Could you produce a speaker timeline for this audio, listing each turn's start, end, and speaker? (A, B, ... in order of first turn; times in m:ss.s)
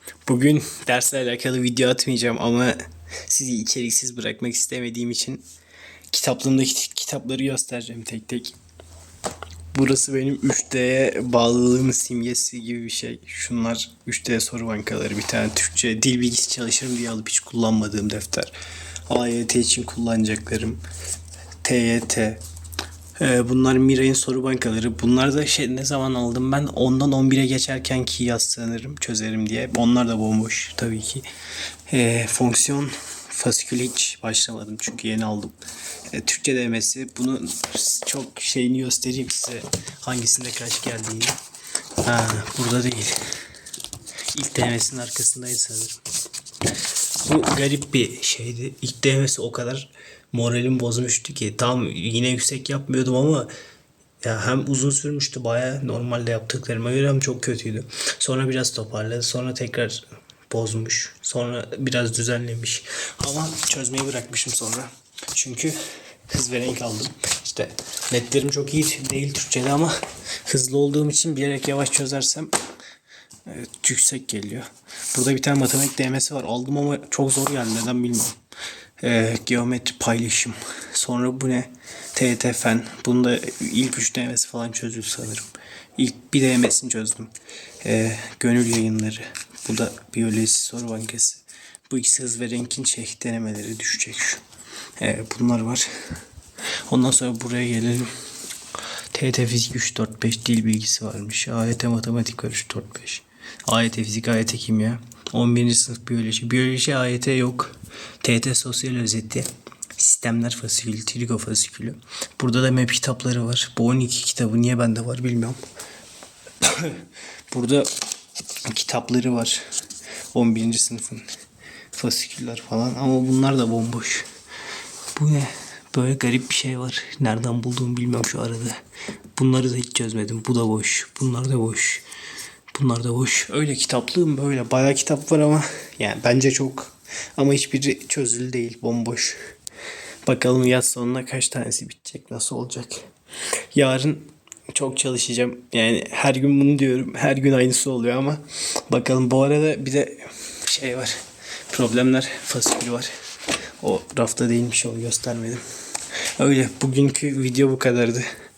0:00.2-0:02.8 A
0:03.3-0:05.4 A
0:06.1-0:08.6 A
0:09.7-0:18.5 A
0:19.1-0:20.8 A
0:21.6-0:22.4 A
0:23.2-0:31.2 A
0:31.9-0:35.6 A
0:36.1-0:41.3 A
0:42.0-0:43.2 A
0:44.3-0:46.0 A
0:47.2-0:53.5 A
0:54.2-1:05.8 A
1:06.3-1:09.9 A
1:10.4-1:12.5 A
1:13.4-1:18.4 A
1:19.0-1:34.4 A
1:35.0-1:35.9 A
1:36.9-1:38.1 A
1:39.1-1:55.6 A
1:56.6-1:57.9 A
1:58.7-1:59.6 A
2:00.3-2:01.3 A
2:01.9-2:04.3 A
2:05.1-2:08.8 A
2:09.4-2:12.0 A
2:12.7-2:19.4 A
2:20.2-2:23.1 A
2:23.7-2:31.1 A
2:31.7-2:33.1 A
2:33.8-2:35.6 A
2:36.4-2:38.2 A